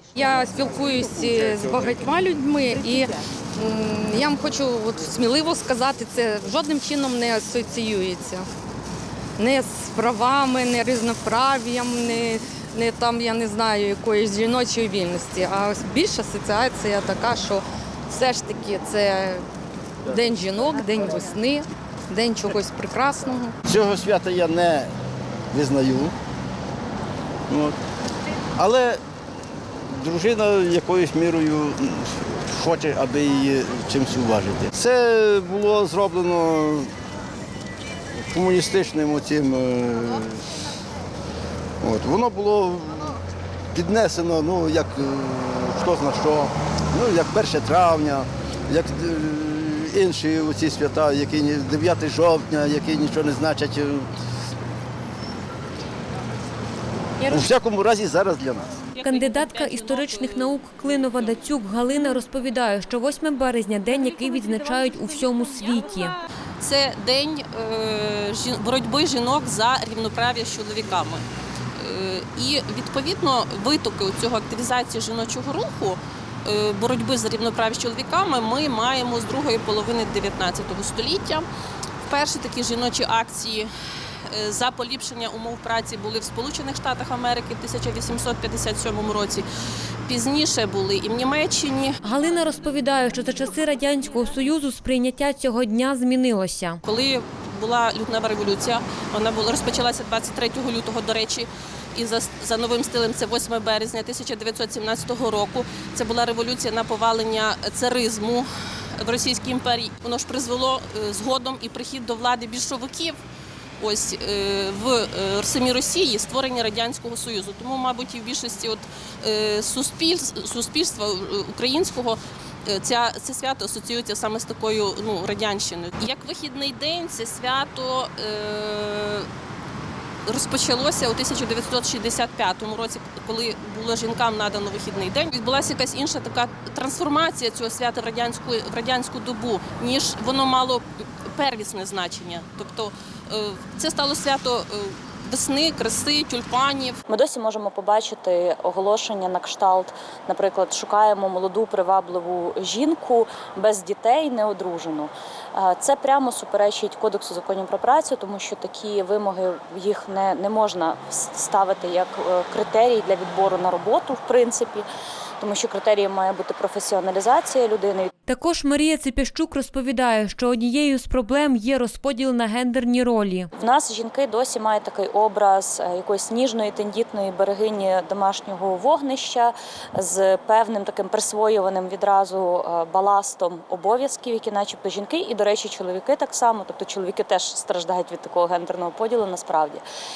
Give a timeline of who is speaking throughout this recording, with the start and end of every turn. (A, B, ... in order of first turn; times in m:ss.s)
0:00.1-0:08.5 A
0:09.4-0:19.4 A
0:20.0-0:23.6 A
0:23.7-0:24.9 B
0:25.5-0:26.1 B
0:27.5-0:27.8 B
0:28.6-0:29.0 B
0:29.9-0:36.9 B
0:38.3-0:40.5 B
0:41.8-0:43.2 B
0:43.7-0:54.1 B
0:57.2-0:58.8 B
0:58.9-1:01.4 C
0:59.0-1:06.2 D
1:06.6-1:11.2 C
1:11.8-1:21.5 C
1:22.0-1:23.7 C
1:24.3-1:29.4 C
1:30.1-1:32.0 C
1:32.0-1:36.8 D
1:36.8-1:53.2 C
1:53.8-2:09.3 C
2:10.2-2:27.0 C
2:27.1-2:44.8 E
2:45.4-2:48.1 E
2:48.3-2:53.5 D
2:53.6-3:09.8 E